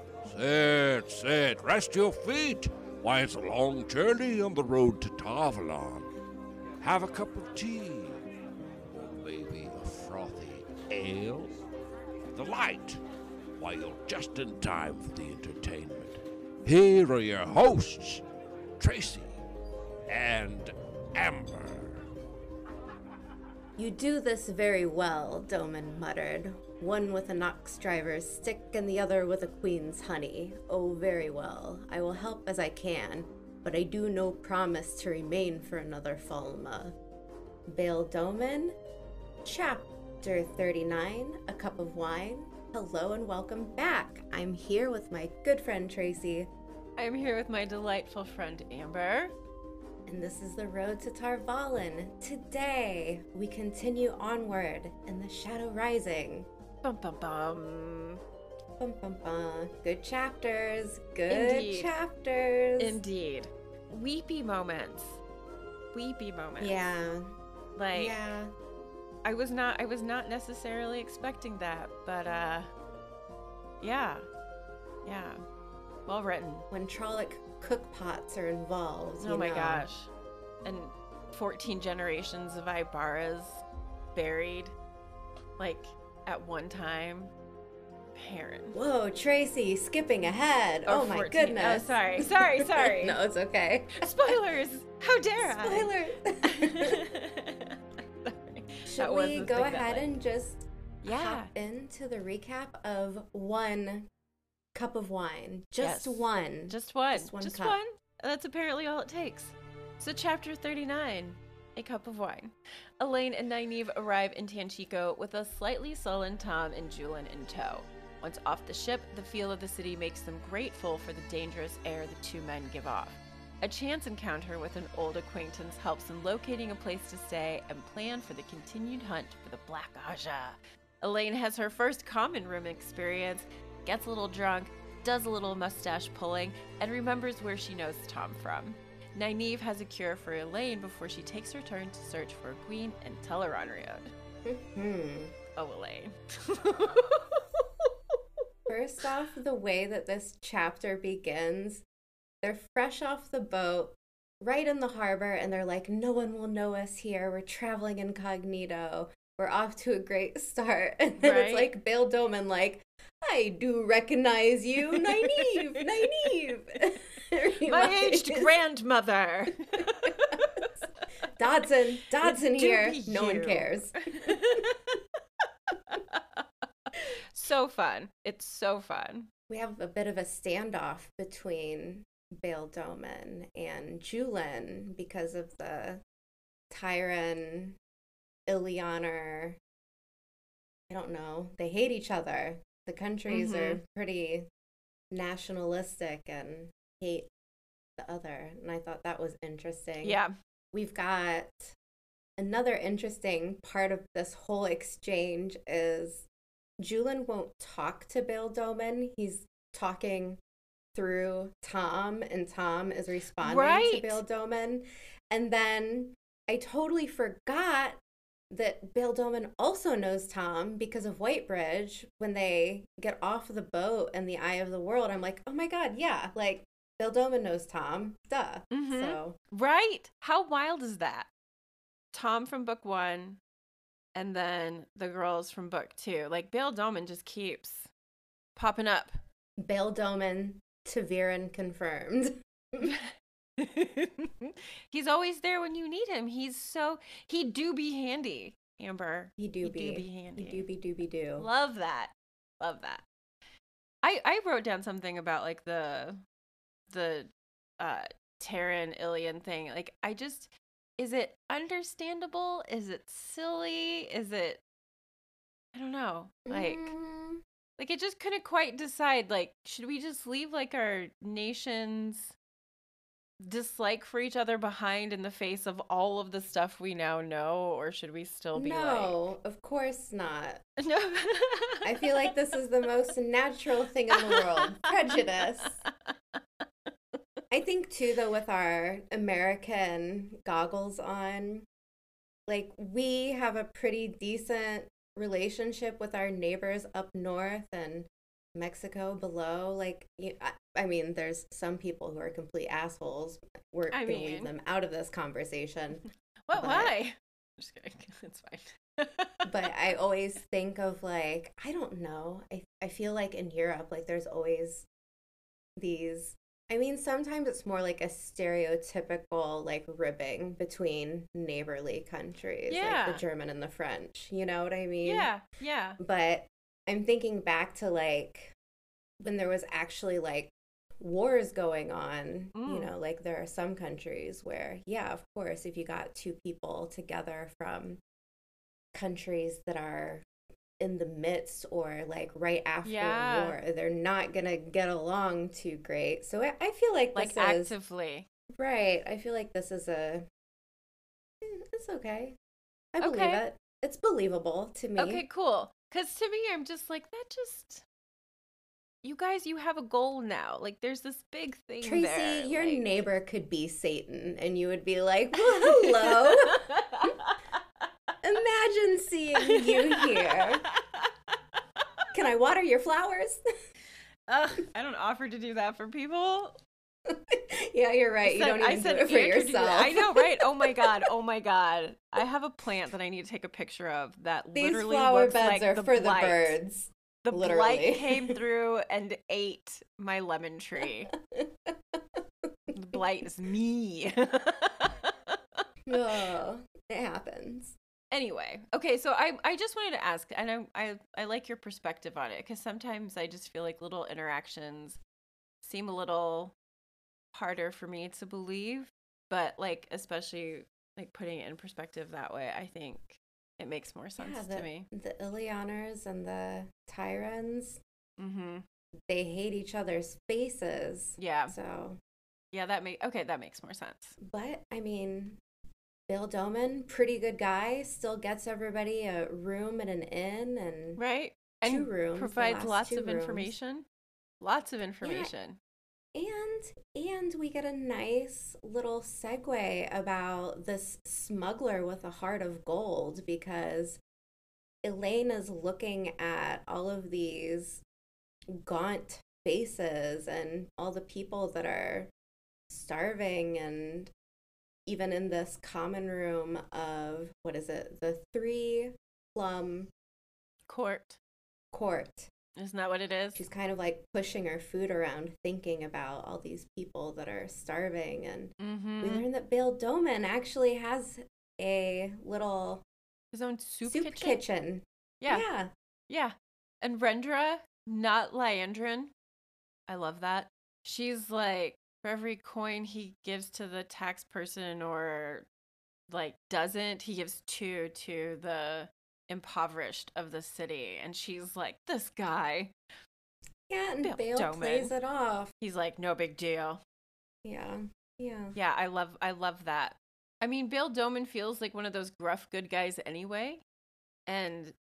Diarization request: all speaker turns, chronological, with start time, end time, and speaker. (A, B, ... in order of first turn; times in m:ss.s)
0:00.2-0:06.1 A
0:06.8-0:08.2 A
0:08.9-0:11.6 A
0:12.4-0:13.0 A
0:13.6-0:18.2 A
0:18.8-0:19.3 A
0:20.1-0:22.0 A
0:23.8-0:37.0 B
0:37.7-0:38.8 B
0:39.4-0:46.5 B
0:47.0-0:49.3 C
0:50.1-0:56.5 B
0:56.8-0:58.2 C
0:58.8-1:03.0 B
1:01.3-1:01.9 C
1:02.8-1:05.2 C
1:05.9-1:06.9 C
1:06.6-1:07.3 B
1:07.8-1:08.2 C
1:07.9-1:08.5 B
1:09.2-1:12.7 C
1:13.8-1:14.3 C
1:15.0-1:15.4 C
1:16.1-1:16.7 C
1:16.7-1:19.9 B
1:19.2-1:20.1 C
1:20.6-1:24.7 C
1:25.6-1:27.3 C
1:28.2-1:28.8 C
1:28.7-1:34.4 B
1:30.9-1:33.2 C
1:34.0-1:35.9 C
1:35.4-1:37.0 B
1:36.4-1:40.1 C
1:38.9-1:44.1 B
1:41.0-1:41.5 C
1:44.7-1:47.8 B
1:45.8-2:24.1 C
2:24.4-2:25.3 B
2:25.6-2:27.9 C
2:28.7-2:31.8 B
2:32.4-2:48.5 B
2:41.2-2:41.7 C
2:44.9-2:45.9 C
2:47.7-2:50.8 C
2:51.4-2:54.6 B
2:52.2-2:55.0 C
2:55.7-2:59.3 C
2:59.5-3:06.0 B
3:06.7-3:07.8 B
3:08.5-3:09.6 B
3:10.9-3:14.5 B
3:13.3-3:13.8 C
3:15.1-3:17.3 B
3:18.0-3:20.2 B
3:20.0-3:20.3 C
3:20.7-3:21.8 B
3:22.4-3:26.3 B
3:26.8-3:30.4 B
3:31.0-3:38.0 B
3:33.4-3:34.2 C
3:38.5-3:49.4 B
3:48.7-3:51.3 C
3:52.1-3:53.4 C
3:54.2-3:57.9 C
3:58.6-3:59.2 C
3:59.6-4:02.9 B
4:02.8-4:10.7 C
4:09.4-4:11.5 B
4:11.4-4:13.1 C
4:14.0-4:16.2 C
4:16.9-4:24.6 C
4:25.7-4:26.9 C
4:26.5-4:27.4 B
4:27.8-4:32.4 C
4:33.4-4:39.2 C
4:38.6-4:40.6 B
4:40.8-4:42.3 C
4:41.8-4:45.8 B
4:44.1-4:44.6 C
4:47.5-4:51.7 B
4:52.5-5:06.0 B
5:03.9-5:04.5 C
5:06.5-5:09.5 C
5:06.6-5:06.9 B
5:09.4-5:14.9 B
5:15.8-5:25.3 B
5:22.7-5:23.2 C
5:25.0-5:26.0 C
5:26.0-5:28.6 B
5:29.2-5:38.0 B
5:32.5-5:32.9 C
5:38.9-5:40.2 B
5:40.8-5:47.7 B
5:42.8-5:43.6 C
5:47.2-5:48.3 C
5:48.6-5:50.3 B
5:51.4-5:52.4 B
5:53.0-5:55.2 B
5:53.0-5:53.4 C
5:55.0-5:57.8 C
5:59.0-6:02.9 C
6:01.8-6:06.6 B
6:05.4-6:07.6 C
6:08.2-6:10.6 B
6:09.4-6:11.6 C
6:12.1-6:13.4 B
6:14.3-6:16.6 C
6:17.1-6:21.1 B
6:18.2-6:26.6 C
6:24.6-6:28.4 B
6:27.2-6:31.1 C
6:31.1-6:32.7 B
6:32.7-6:35.6 C
6:35.9-6:37.8 B
6:38.1-6:45.0 C
6:45.6-6:46.5 C
6:47.3-6:54.9 C
6:54.2-6:57.8 B
6:58.2-6:58.6 C
6:59.1-7:02.0 B
7:01.2-7:01.6 C
7:02.5-7:04.2 C
7:04.2-7:05.4 B
7:06.1-7:11.0 B
7:11.0-7:13.8 C
7:11.6-7:13.5 B
7:14.4-7:15.6 C
7:15.0-7:15.3 B
7:16.2-7:24.0 B
7:24.8-7:27.8 B
7:28.5-7:32.1 B
7:32.7-7:34.1 B
7:34.9-7:39.9 B
7:40.7-7:41.2 C
7:41.7-7:42.3 B
7:42.6-7:43.4 C
7:43.4-7:52.8 B
7:48.6-7:49.3 C
7:53.3-7:54.4 C
7:53.9-7:55.7 B
7:55.2-7:55.5 C
7:56.1-7:59.1 C
7:59.9-8:05.5 C
8:06.1-8:12.8 C
8:13.7-8:15.5 B
8:14.0-8:14.9 C
8:15.6-8:16.8 C
8:17.4-8:18.6 B
8:18.6-8:23.6 C
8:24.3-8:24.8 C